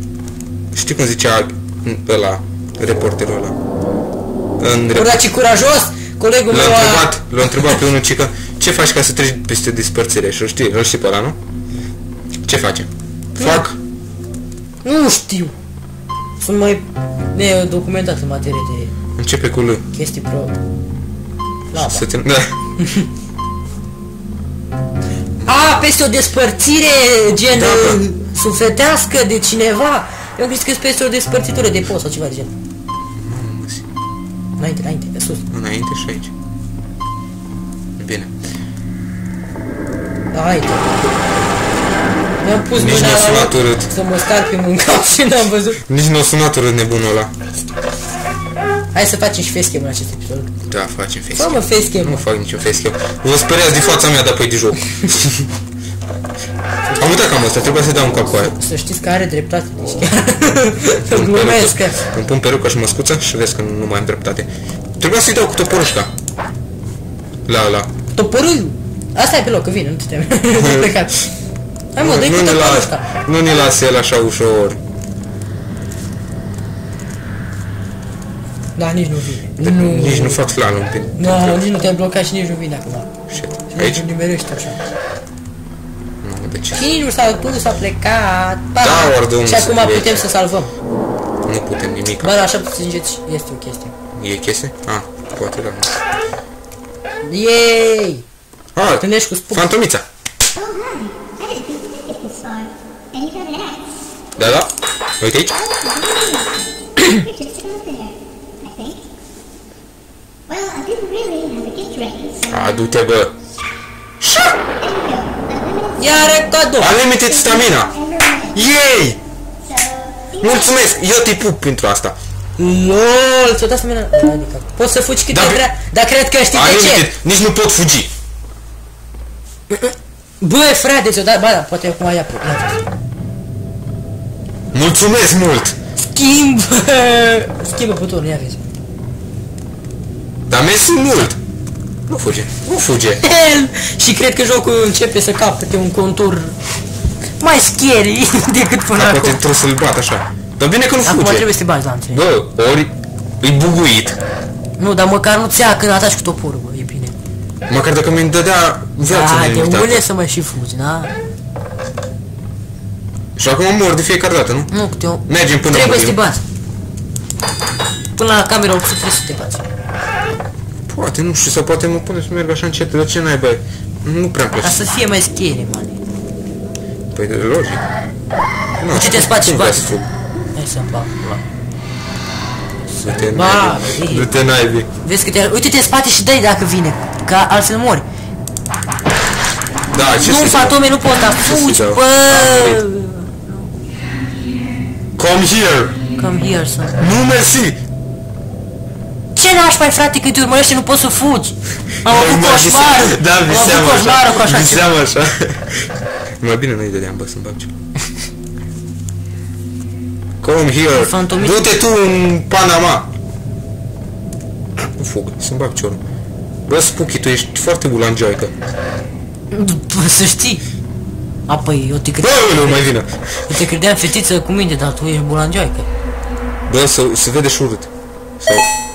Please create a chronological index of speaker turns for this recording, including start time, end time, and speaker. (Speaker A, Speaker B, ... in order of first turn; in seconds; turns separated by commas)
Speaker A: 0.7-3.5, Speaker A: 4.6-5.2, Speaker B: 4.9-7.1, Speaker A: 6.5-11.4, Speaker A: 12.4-13.8, Speaker B: 13.4-13.6, Speaker B: 14.8-15.5, Speaker B: 16.4-18.9, Speaker A: 19.2-19.9, Speaker B: 19.9-20.6, Speaker B: 21.7-22.0, Speaker A: 21.7-22.6, Speaker B: 22.8-23.1, Speaker A: 25.4-25.8, Speaker B: 25.4-32.5, Speaker A: 27.5-28.0, Speaker A: 33.2-33.9, Speaker B: 34.6-35.4, Speaker A: 35.5-36.3, Speaker A: 38.0-38.3, Speaker B: 40.3-41.0, Speaker B: 42.4-45.8, Speaker A: 42.7-43.9, Speaker A: 45.9-47.3, Speaker B: 48.9-50.5, Speaker A: 50.7-55.5, Speaker B: 51.3-52.2, Speaker B: 56.9-62.0, Speaker A: 57.0-58.5, Speaker A: 61.0-64.5, Speaker A: 65.0-66.1, Speaker A: 67.5-67.9, Speaker B: 68.1-71.3, Speaker A: 70.5-70.9, Speaker B: 71.9-73.1, Speaker A: 72.0-74.8, Speaker B: 78.8-80.4, Speaker A: 79.6-81.6, Speaker B: 81.2-83.1, Speaker A: 83.3-84.0, Speaker B: 83.7-84.8, Speaker A: 86.2-86.8, Speaker B: 86.7-90.7, Speaker A: 88.8-90.2, Speaker A: 91.5-92.4, Speaker B: 92.2-93.9, Speaker A: 94.1-95.9, Speaker B: 97.2-98.2, Speaker A: 98.7-100.0, Speaker B: 98.9-99.7, Speaker C: 100.6-103.9, Speaker A: 104.3-105.6, Speaker C: 105.7-109.0, Speaker C: 110.5-112.5, Speaker A: 112.5-113.3, Speaker A: 114.2-114.6, Speaker C: 114.8-116.0, Speaker B: 116.0-116.9, Speaker A: 116.8-118.0, Speaker C: 118.0-118.5, Speaker A: 118.5-119.2, Speaker C: 119.7-120.4, Speaker A: 120.4-122.2, Speaker B: 122.6-127.1, Speaker A: 125.3-125.6, Speaker A: 126.5-128.1, Speaker B: 129.7-132.8, Speaker A: 134.7-135.8, Speaker B: 136.0-138.6, Speaker A: 140.5-141.4, Speaker A: 142.1-143.2, Speaker B: 143.2-146.6, Speaker B: 147.4-149.4, Speaker A: 148.9-151.5, Speaker B: 151.0-152.2, Speaker A: 152.1-154.2, Speaker B: 154.8-157.1, Speaker A: 157.7-160.0, Speaker B: 159.1-161.1, Speaker A: 163.4-164.7, Speaker B: 164.7-166.4, Speaker A: 165.2-166.2, Speaker B: 168.2-169.6, Speaker A: 170.9-174.8, Speaker B: 174.6-176.0, Speaker A: 177.1-177.8, Speaker A: 178.8-180.1, Speaker B: 178.9-180.0, Speaker B: 180.5-181.4, Speaker A: 183.0-184.9, Speaker B: 183.1-184.3, Speaker B: 185.0-188.0, Speaker A: 189.9-192.8, Speaker B: 190.2-193.6, Speaker A: 195.2-196.0, Speaker B: 196.2-197.1, Speaker A: 197.0-197.8, Speaker B: 199.3-204.9, Speaker A: 202.0-205.9, Speaker A: 206.4-207.7, Speaker A: 210.4-213.1, Speaker B: 210.9-211.7, Speaker A: 215.0-216.0, Speaker A: 216.7-218.5, Speaker B: 219.5-220.6, Speaker B: 221.5-222.9, Speaker A: 222.2-223.6, Speaker B: 223.5-225.9, Speaker A: 226.7-228.7